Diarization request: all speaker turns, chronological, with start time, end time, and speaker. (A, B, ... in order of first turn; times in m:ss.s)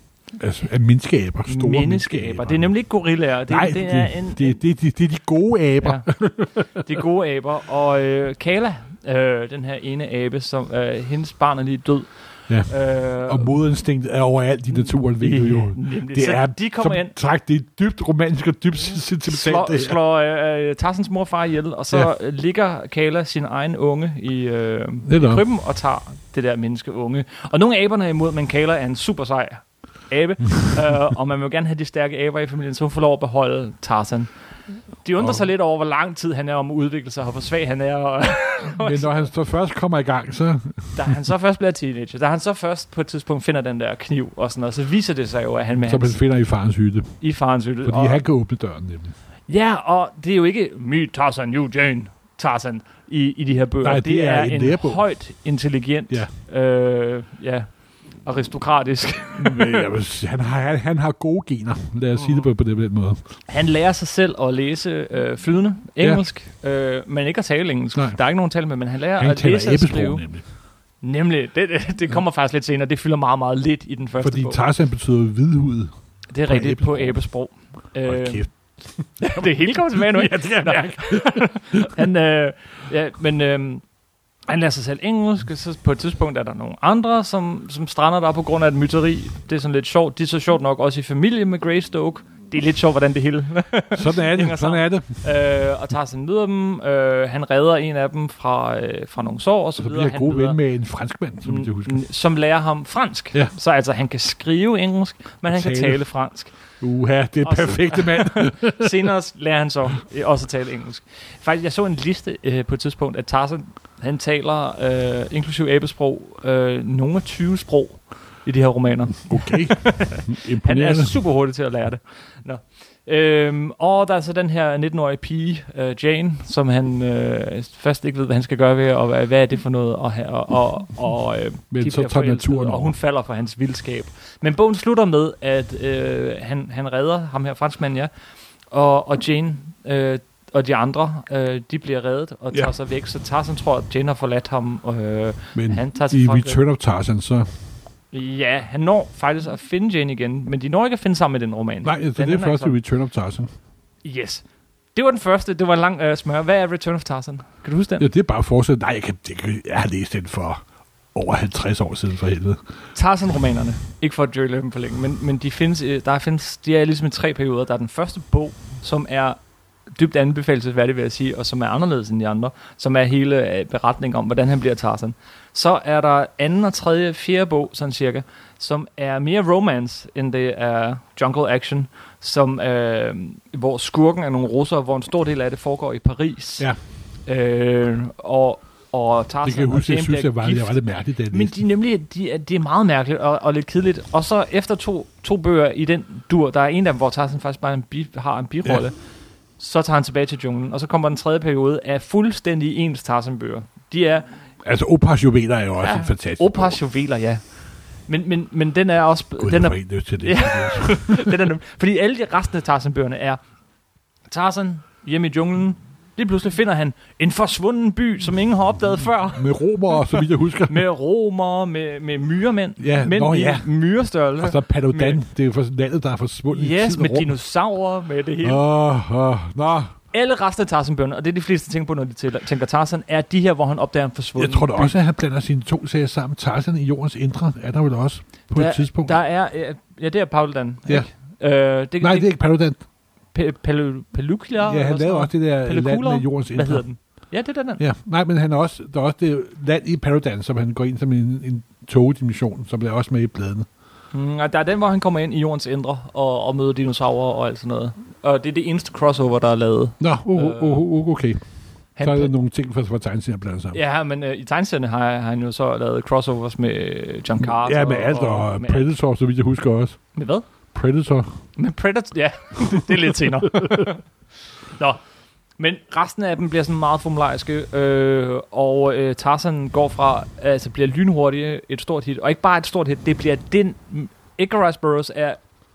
0:00.4-0:02.7 A
0:01.4-0:04.6 B
0:03.4-0:06.7 A
0:05.8-0:13.5 B
0:12.5-0:20.0 A
0:14.7-0:17.1 B
0:19.3-0:34.3 B
0:25.1-0:25.4 A
0:35.0-0:39.3 B
0:38.7-0:41.1 A
0:40.9-0:46.2 B
0:45.8-0:47.2 A
0:47.2-0:48.2 B
0:47.8-0:49.1 A
0:49.5-0:57.7 B
0:53.8-0:55.0 A
0:58.2-0:59.9 B
0:59.4-1:03.3 A
1:03.5-1:10.2 B
1:07.9-1:08.2 A
1:09.2-1:10.4 A
1:11.0-1:14.6 B
1:14.2-1:15.9 A
1:16.3-1:18.4 B
1:16.5-1:17.2 A
1:18.0-1:21.9 A
1:19.2-1:23.8 B
1:24.5-1:40.6 B
1:33.9-1:35.1 A
1:39.8-1:42.0 A
1:41.4-1:46.5 B
1:45.5-1:46.0 A
1:46.8-1:49.1 A
1:47.4-2:18.1 B
1:59.3-2:01.2 A
2:11.7-2:12.9 A
2:18.7-2:26.6 B
2:25.5-2:27.4 A
2:28.1-2:32.8 B
2:31.8-2:33.5 A
2:34.0-2:34.4 B
2:34.9-2:38.1 B
2:38.0-2:40.6 A
2:41.1-2:42.6 A
2:42.9-2:49.4 B
2:49.9-3:06.7 B
3:07.3-3:18.9 B
3:09.4-3:11.6 A
3:19.6-3:24.3 B
3:24.6-3:26.8 A
3:25.8-3:27.4 B
3:28.1-3:33.4 B
3:29.4-3:31.4 A
3:34.3-3:45.2 B
3:39.3-3:40.8 A
3:42.8-3:43.7 A
3:44.4-3:47.3 A
3:46.5-3:48.6 B
3:48.4-3:49.9 A
3:50.1-3:54.9 B
3:54.4-3:59.2 A
3:58.5-4:02.3 B
4:02.0-4:02.8 A
4:03.3-4:07.8 B
4:04.6-4:06.8 A
4:07.8-4:13.7 A
4:14.1-4:20.8 B
4:20.0-4:21.4 A
4:22.0-4:22.3 B
4:22.0-4:23.8 A
4:23.7-4:28.8 B
4:27.4-4:30.0 A
4:30.2-4:30.4 B
4:30.7-4:31.4 A
4:31.6-4:34.0 B
4:34.8-4:35.0 B
4:35.6-4:45.4 B